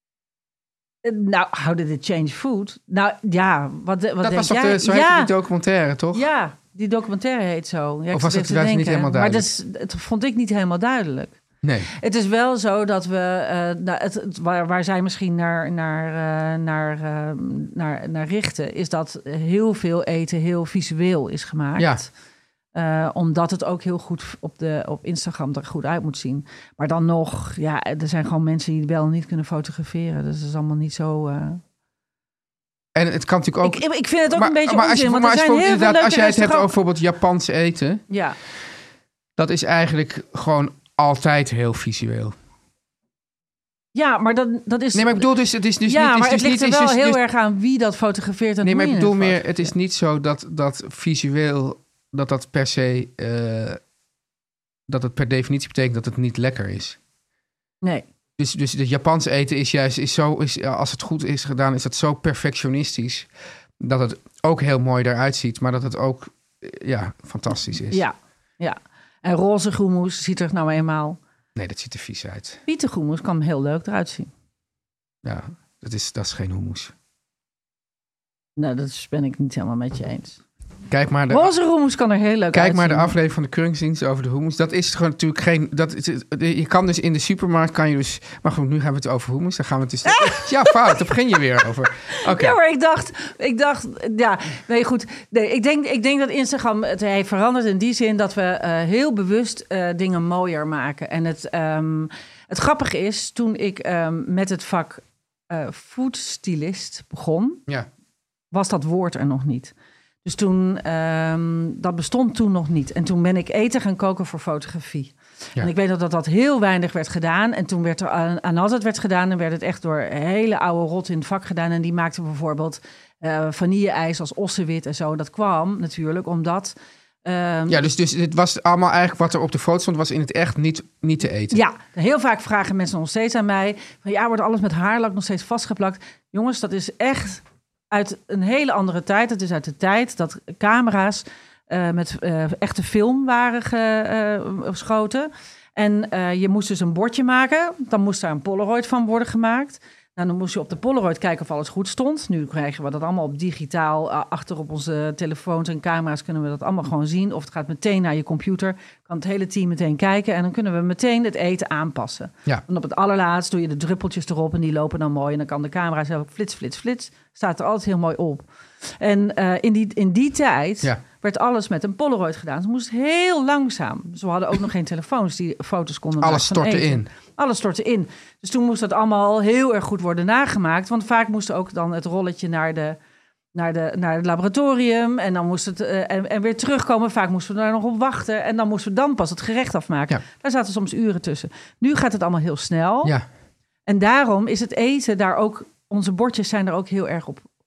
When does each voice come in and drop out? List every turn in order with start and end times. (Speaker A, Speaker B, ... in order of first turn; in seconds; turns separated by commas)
Speaker A: 1.0-5.3, Speaker B: 4.2-6.2, Speaker A: 6.1-11.4, Speaker B: 8.1-9.5, Speaker B: 11.6-11.9, Speaker A: 11.9-22.1, Speaker B: 21.8-22.0, Speaker A: 22.7-31.6, Speaker B: 33.0-38.0, Speaker A: 33.6-36.8, Speaker A: 38.1-38.4, Speaker B: 39.4-42.4, Speaker A: 43.9-45.3, Speaker B: 44.9-47.2, Speaker A: 45.9-49.7, Speaker B: 48.6-53.8, Speaker B: 54.9-57.0, Speaker B: 58.4-63.3, Speaker B: 63.8-68.0, Speaker A: 67.9-71.2, Speaker B: 71.6-72.6, Speaker A: 72.7-74.3, Speaker B: 75.2-76.9, Speaker A: 78.6-80.4, Speaker B: 80.9-81.5, Speaker A: 81.3-83.1, Speaker B: 82.5-92.6, Speaker A: 90.1-91.0, Speaker A: 92.2-107.6, Speaker A: 108.5-109.7, Speaker A: 110.2-127.8, Speaker B: 127.7-131.6, Speaker A: 131.5-168.4, Speaker A: 169.0-183.0, Speaker B: 176.2-177.1, Speaker A: 183.5-193.1, Speaker A: 193.9-197.4